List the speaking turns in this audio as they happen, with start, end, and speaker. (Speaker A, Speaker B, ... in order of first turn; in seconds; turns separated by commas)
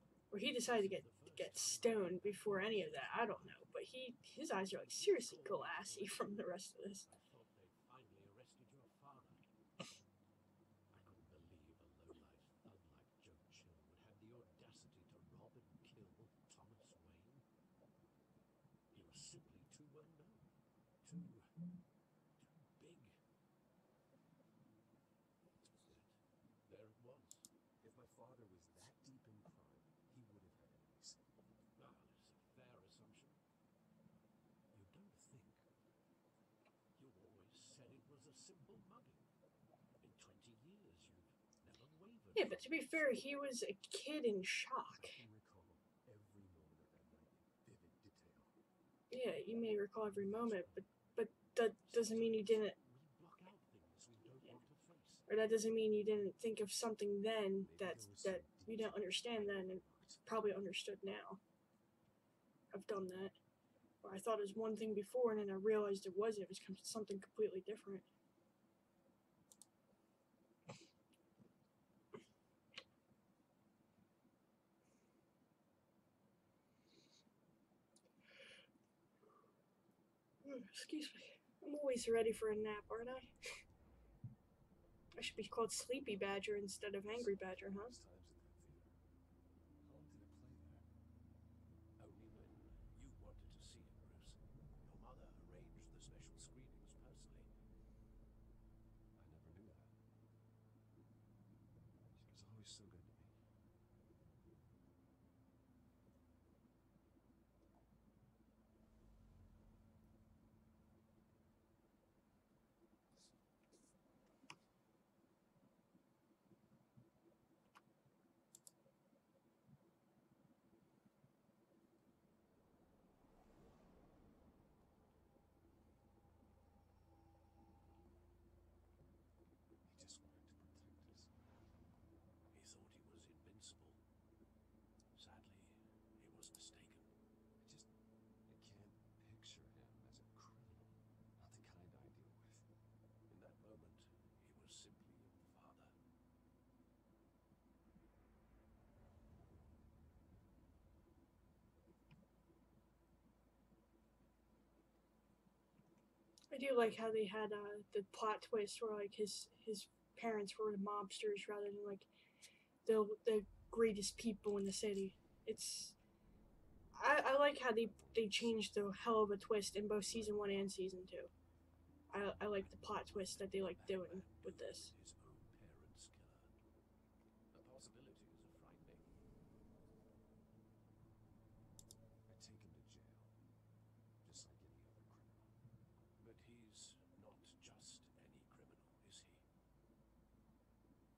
Speaker A: 0.3-7.0, Speaker B: 0.6-3.7, Speaker B: 4.7-6.3, Speaker B: 7.0-9.4, Speaker B: 10.9-17.4, Speaker B: 18.9-20.4, Speaker B: 21.0-21.5, Speaker B: 22.4-23.1, Speaker B: 25.8-27.5, Speaker C: 27.8-31.2, Speaker B: 31.8-33.4, Speaker B: 34.7-35.6, Speaker B: 37.0-39.2, Speaker B: 40.0-43.2, Speaker A: 42.3-45.2, Speaker C: 44.9-48.5, Speaker A: 49.1-52.8, Speaker B: 50.1-50.9, Speaker B: 51.9-55.2, Speaker A: 55.3-61.4, Speaker C: 57.6-60.2, Speaker A: 62.7-63.4, Speaker A: 64.0-68.1, Speaker A: 80.4-83.3, Speaker A: 85.1-88.0, Speaker C: 87.0-89.0, Speaker C: 89.8-90.8, Speaker B: 92.0-97.5, Speaker C: 92.1-92.8, Speaker C: 99.2-99.9, Speaker C: 102.1-103.3, Speaker C: 129.8-131.3, Speaker B: 132.5-134.0, Speaker B: 135.1-137.1, Speaker C: 137.6-137.9, Speaker C: 138.4-142.6, Speaker B: 143.3-145.9, Speaker A: 156.5-162.1, Speaker A: 162.8-165.9, Speaker A: 166.9-171.3, Speaker C: 167.5-169.0, Speaker C: 170.0-170.8, Speaker A: 172.1-174.9, Speaker B: 172.5-176.5, Speaker B: 177.5-179.0, Speaker C: 182.3-183.3, Speaker C: 184.2-185.5, Speaker B: 186.2-189.4